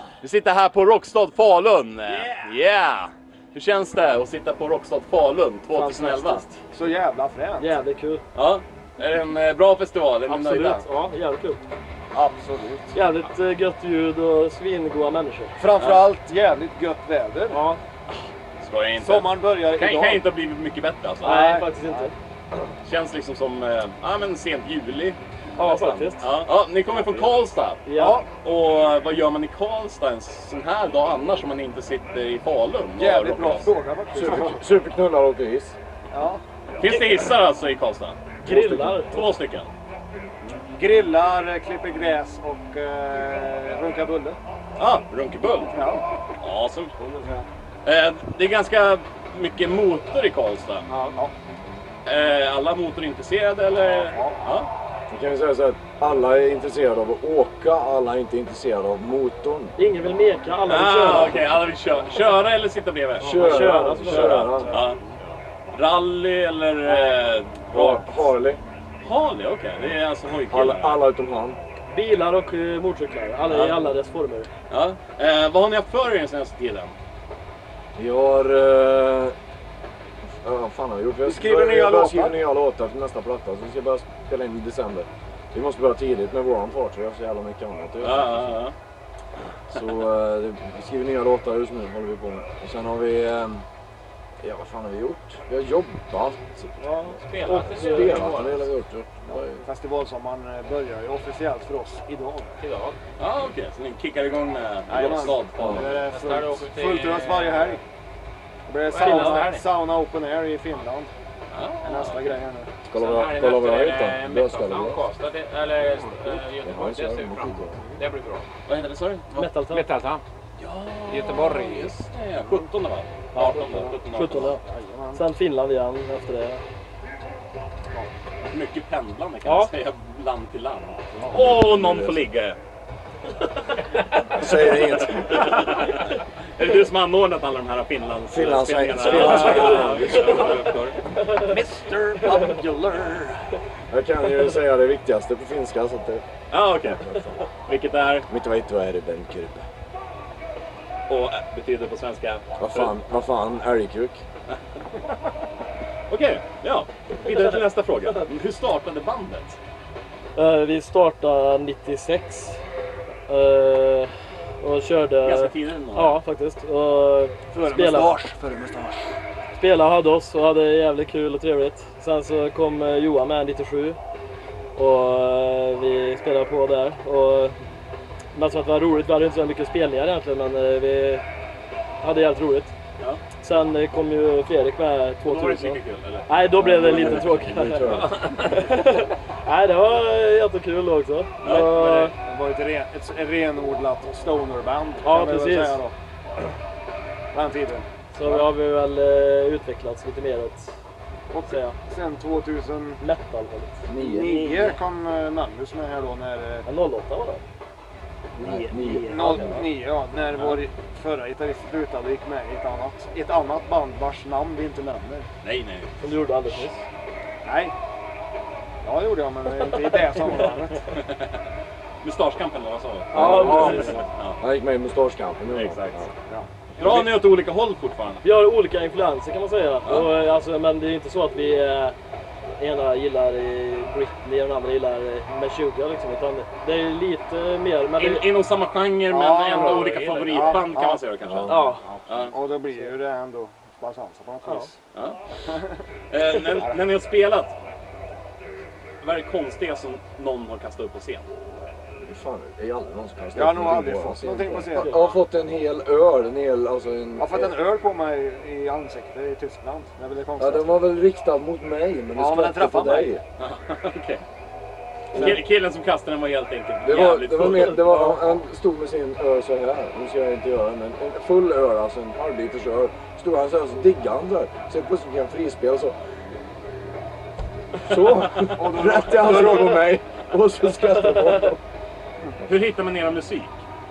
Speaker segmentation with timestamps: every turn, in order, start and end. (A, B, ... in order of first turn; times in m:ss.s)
0:00.2-0:06.4 A
0:05.7-0:06.6 B
0:06.7-0:07.7 C
0:07.6-0:08.2 B
0:08.3-0:10.8 A
0:10.3-0:11.6 B
0:12.1-0:13.0 C
0:12.9-0:15.6 B
0:15.6-0:17.6 C
0:15.8-0:16.1 A
0:17.5-0:17.8 B
0:18.6-0:21.4 A
0:19.0-0:20.3 C
0:21.2-0:22.1 C
0:21.2-0:22.1 B
0:22.8-0:33.7 A
0:25.6-0:26.3 B
0:27.8-0:28.2 B
0:28.0-0:28.3 C
0:33.0-0:34.6 C
0:34.1-0:35.7 D
0:36.1-0:36.4 C
0:36.8-0:38.2 A
0:38.4-0:39.2 B
0:38.4-0:39.0 D
0:39.1-0:39.7 A
0:40.7-0:44.4 C
0:44.8-0:45.8 A
0:45.7-0:46.0 C
0:46.4-0:46.9 A
0:47.0-0:47.4 C
0:47.8-0:50.9 A
0:50.9-0:51.3 C
0:52.0-0:54.7 A
0:53.8-0:54.4 C
0:55.1-0:59.7 D
0:59.8-1:01.6 B
1:00.6-1:05.0 A
1:03.2-1:04.9 D
1:03.2-1:04.7 B
1:05.7-1:08.3 A
1:07.7-1:08.6 D
1:09.0-1:11.0 A
1:10.5-1:11.6 D
1:11.9-1:14.5 B
1:13.5-1:13.9 A
1:14.7-1:17.0 A
1:18.0-1:19.3 D
1:20.4-1:28.6 D
1:21.3-1:22.4 C
1:28.0-1:28.7 A
1:29.7-1:33.6 D
1:34.4-1:39.6 D
1:36.8-1:38.3 B
1:37.3-1:38.4 E
1:37.3-1:38.6 A
1:39.6-1:42.6 C
1:42.6-1:43.0 E
1:43.2-1:46.0 A
1:44.9-1:47.8 C
1:45.6-1:45.8 D
1:46.0-1:47.8 E
1:48.7-1:51.1 C
1:48.9-1:49.7 E
1:48.9-1:49.5 B
1:51.5-1:52.4 A
1:51.8-1:52.7 C
1:52.9-1:55.1 D
1:52.9-1:58.5 E
1:56.4-1:57.8 D
1:58.7-1:59.5 A
1:59.3-1:59.9 B
1:59.7-2:00.2 E
2:00.6-2:04.5 A
2:01.1-2:01.9 E
2:02.4-2:02.6 C
2:03.3-2:05.2 C
2:04.0-2:04.6 B
2:05.1-2:06.6 B
2:08.4-2:12.6 A
2:09.4-2:09.7 B
2:11.2-2:11.6 C
2:11.3-2:12.3 D
2:14.3-2:15.5 D
2:14.5-2:21.0 A
2:18.3-2:20.6 D
2:19.2-2:20.0 B
2:21.3-2:23.5 C
2:23.9-2:26.2 D
2:26.5-2:28.3 A
2:28.3-2:29.6 D
2:31.1-2:32.9 A
2:32.6-2:34.2 D
2:36.1-2:39.6 A
2:40.4-2:42.6 B
2:43.3-2:48.2 B
2:45.2-2:46.2 A
2:47.5-2:49.0 C
2:49.6-2:54.0 B
2:54.8-2:57.6 B
2:58.3-3:01.2 B
3:02.0-3:02.7 B
3:03.4-3:12.1 B
3:05.2-3:06.3 A
3:06.5-3:08.3 D
3:07.9-3:08.3 A
3:11.4-3:11.8 A
3:11.4-3:15.9 C
3:15.0-3:15.8 B
3:17.3-3:18.5 C
3:18.1-3:20.7 B
3:21.3-3:23.0 C
3:21.5-3:21.8 B
3:23.0-3:24.8 B
3:23.9-3:24.4 D
3:24.0-3:26.7 C
3:26.7-3:27.4 B
3:28.4-3:29.7 B
3:28.4-3:29.6 D
3:28.8-3:35.3 C
3:35.4-3:36.0 A
3:36.0-3:36.8 B
3:37.4-3:37.8 C
3:38.8-3:40.8 C
3:41.0-3:41.2 A
3:42.0-3:44.4 A
3:43.1-3:44.0 B
3:43.1-3:46.1 D
3:43.2-3:43.9 C
3:45.5-3:46.1 A
3:46.3-3:46.9 C
3:46.8-3:48.2 A
3:48.2-3:51.9 B
3:49.8-3:50.1 A
3:52.6-3:58.3 B
3:58.0-4:02.4 A
3:59.1-4:04.7 C
3:59.5-4:00.7 E
4:01.2-4:01.8 D
4:01.5-4:01.9 B
4:04.9-4:05.2 A
4:05.5-4:05.8 C
4:06.1-4:07.5 A
4:09.0-4:11.2 A
4:12.0-4:17.5 D
4:13.3-4:15.0 C
4:14.8-4:15.1 B
4:17.2-4:20.8 C
4:20.4-4:23.2 D
4:22.2-4:23.1 C
4:23.4-4:24.2 A
4:25.1-4:25.4 D
4:25.1-4:28.3 A
4:26.8-4:35.9 D
4:37.8-4:41.6 D
4:38.6-4:39.9 C
4:39.2-4:39.4 A
4:40.8-4:41.4 B
4:42.4-4:43.6 A